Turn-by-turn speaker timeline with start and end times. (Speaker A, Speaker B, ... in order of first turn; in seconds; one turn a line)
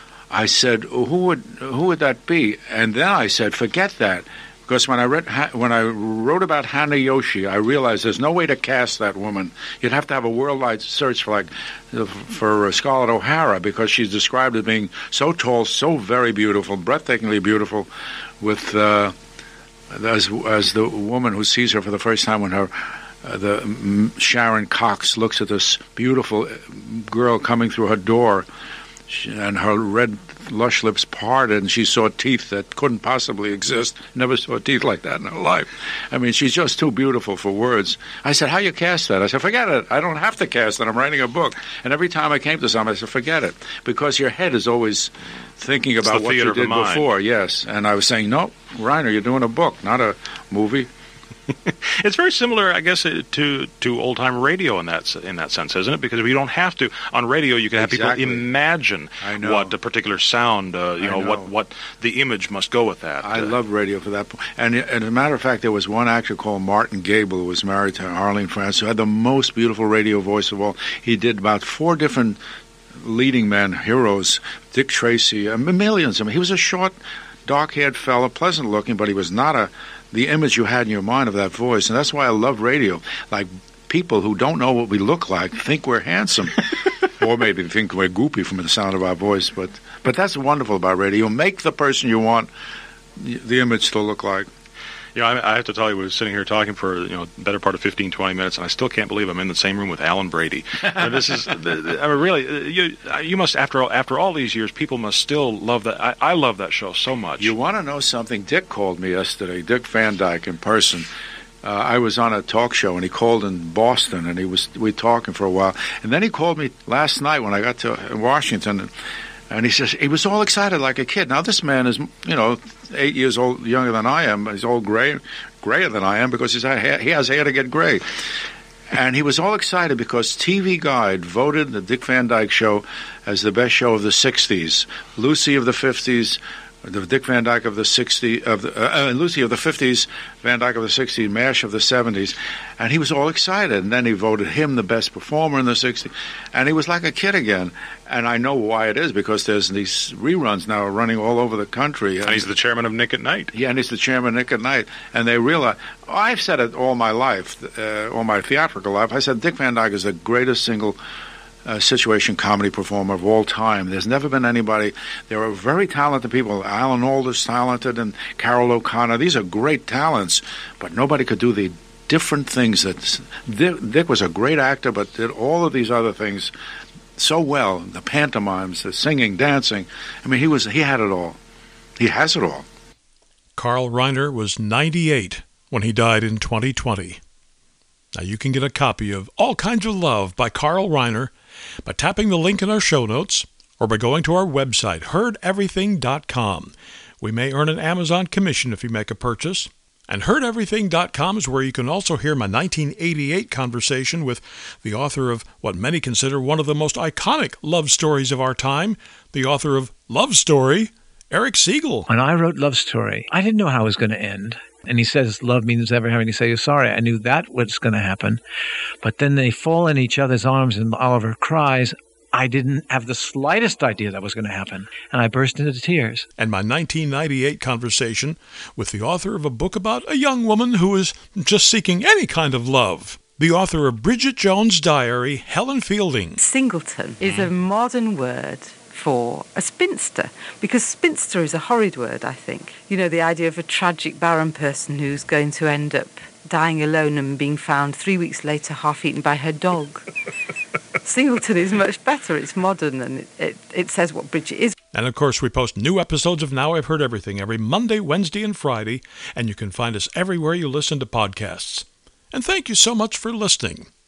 Speaker A: 0.3-17.9
Speaker A: 18.4-19.1
Speaker A: 19.9-28.5
Speaker A: 29.1-50.9
Speaker B: 46.0-47.1
Speaker B: 51.5-63.5
Speaker A: 57.8-58.5
Speaker A: 59.2-59.8
Speaker A: 61.0-61.5
Speaker A: 63.2-72.4
Speaker A: 73.0-92.5
Speaker A: 93.2-94.5
Speaker B: 95.2-107.5
Speaker A: 107.4-111.1
Speaker A: 111.6-118.9
Speaker A: 119.5-128.0
Speaker A: 128.9-152.4
Speaker B: 152.2-153.5
Speaker A: 153.5-161.0
Speaker A: 161.7-176.5
Speaker A: 177.2-181.4
Speaker A: 182.0-182.7
Speaker C: 183.6-187.2
Speaker C: 188.2-191.3
Speaker C: 191.8-212.1
Speaker D: 212.1-218.4
Speaker D: 219.0-226.2
Speaker C: 226.4-236.4
Speaker E: 236.4-250.1
Speaker B: 237.2-237.5
Speaker E: 251.0-254.8
Speaker C: 254.9-263.9